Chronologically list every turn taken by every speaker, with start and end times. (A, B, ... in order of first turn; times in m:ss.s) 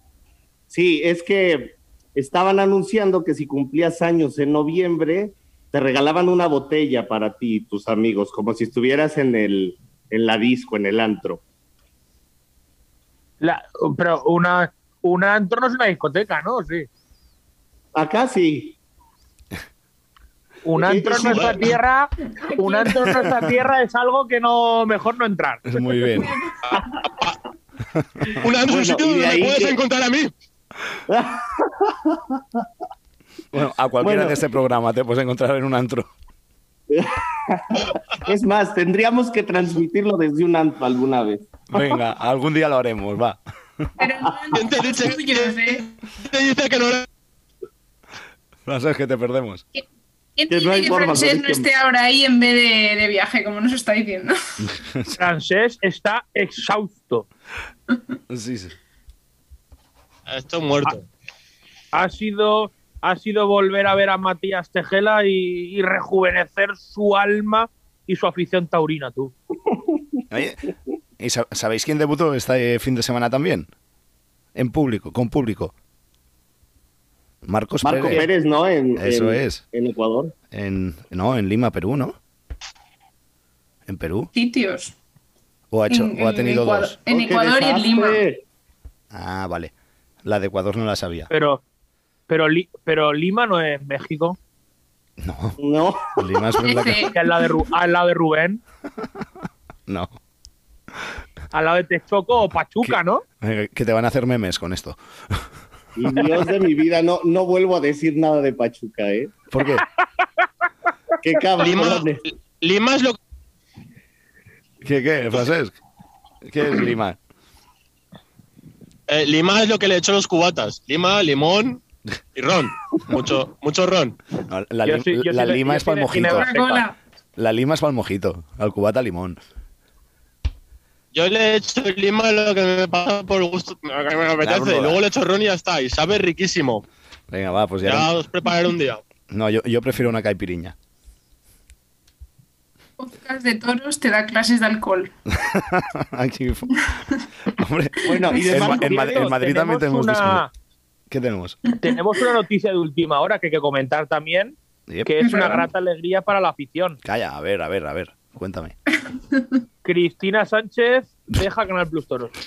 0:00.7-0:11.4 A
0:13.4-0:16.9 B
0:18.0-0:18.8 A
0:20.6-0:25.6 B
0:20.8-0:21.7 A
0:21.3-0:21.6 C
0:22.5-0:23.2 D
0:25.7-0:26.4 E
0:26.1-0:26.5 D
0:26.6-0:27.4 C
0:28.4-0:30.3 C
0:28.7-0:29.8 A
0:31.1-0:32.6 A
0:33.5-0:36.1 E
0:34.0-0:34.4 A
0:36.9-0:41.9 A
0:41.7-0:43.9 E
0:44.0-0:45.8 D
0:44.5-0:47.1 C
0:48.7-0:49.6 E
0:50.4-0:54.3 D
0:50.5-0:51.7 A
0:54.6-0:55.2 E
0:55.1-0:57.3 B
0:58.3-0:58.7 E
1:00.3-1:01.0 C
1:01.9-1:09.3 B
1:10.3-1:13.7 E
1:14.6-1:15.7 E
1:17.4-1:18.3 E
1:17.8-1:20.4 A
1:19.0-1:19.6 E
1:20.5-1:22.2 E
1:23.9-1:24.3 E
1:24.4-1:25.0 D
1:25.7-1:27.0 E
1:25.9-1:28.2 D
1:27.1-1:28.4 A
1:29.1-1:29.7 E
1:30.2-1:31.3 E
1:31.3-1:31.6 B
1:32.3-1:34.4 B
1:35.2-1:35.6 E
1:35.6-1:36.0 A
1:36.2-1:37.1 E
1:36.6-1:37.2 D
1:37.2-1:38.6 B
1:39.9-1:40.2 E
1:41.5-1:43.2 B
1:42.8-1:45.5 E
1:46.0-1:49.4 A
1:49.5-1:49.8 E
1:51.2-1:52.2 A
1:51.6-1:53.2 C
1:54.8-1:55.7 E
1:56.4-1:57.2 E
1:59.1-2:01.8 C
2:02.4-2:04.2 C
2:04.5-2:06.5 E
2:04.8-2:06.9 B
2:06.3-2:07.0 D
2:07.4-2:09.4 E
2:11.1-2:16.8 C
2:14.5-2:15.0 E
2:17.3-2:18.1 E
2:17.8-2:19.0 C
2:19.3-2:20.8 E
2:23.0-2:25.1 D
2:25.4-2:26.9 E
2:27.5-2:30.4 E
2:28.0-2:28.9 A
2:28.4-2:30.5 B
2:31.1-2:31.6 E
2:31.8-2:37.0 B
2:34.9-2:35.6 E
2:35.2-2:35.6 D
2:37.0-2:38.8 E
2:39.8-2:42.3 B